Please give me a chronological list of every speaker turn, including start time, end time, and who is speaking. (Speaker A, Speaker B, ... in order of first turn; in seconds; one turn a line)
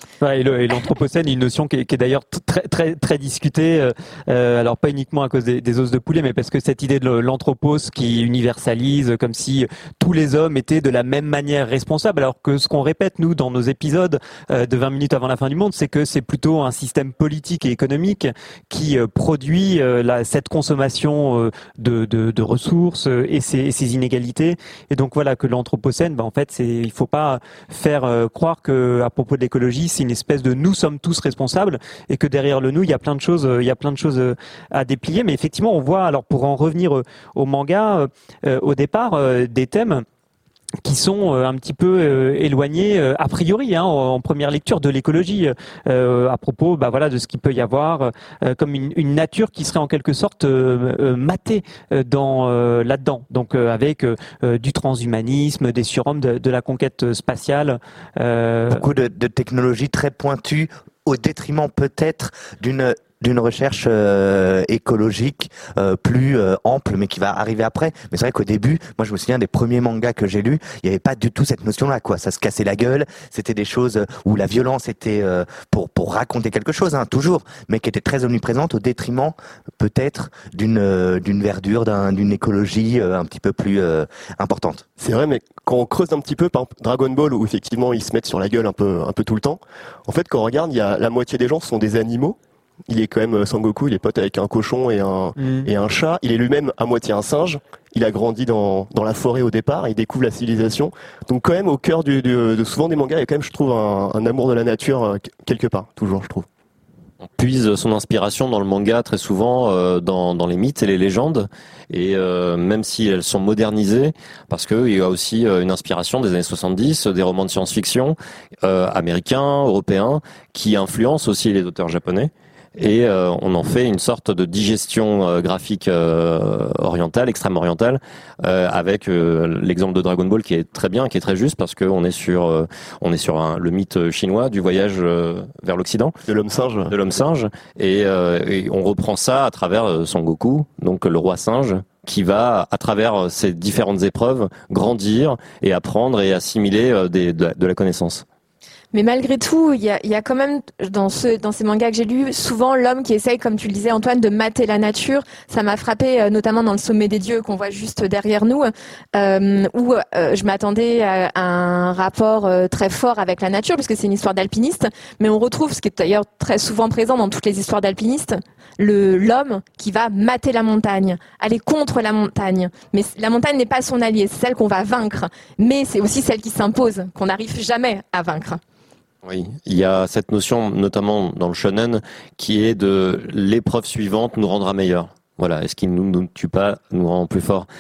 Speaker A: 0.2-40.0
Speaker A: 40.8-58.8
Speaker B: 58.7-84.8
Speaker C: 85.0-92.4
Speaker C: 92.9-106.5
Speaker A: 95.4-95.7
Speaker D: 107.2-136.2
Speaker C: 136.3-136.9
Speaker D: 136.9-148.2
Speaker E: 148.9-178.6
Speaker D: 179.2-187.7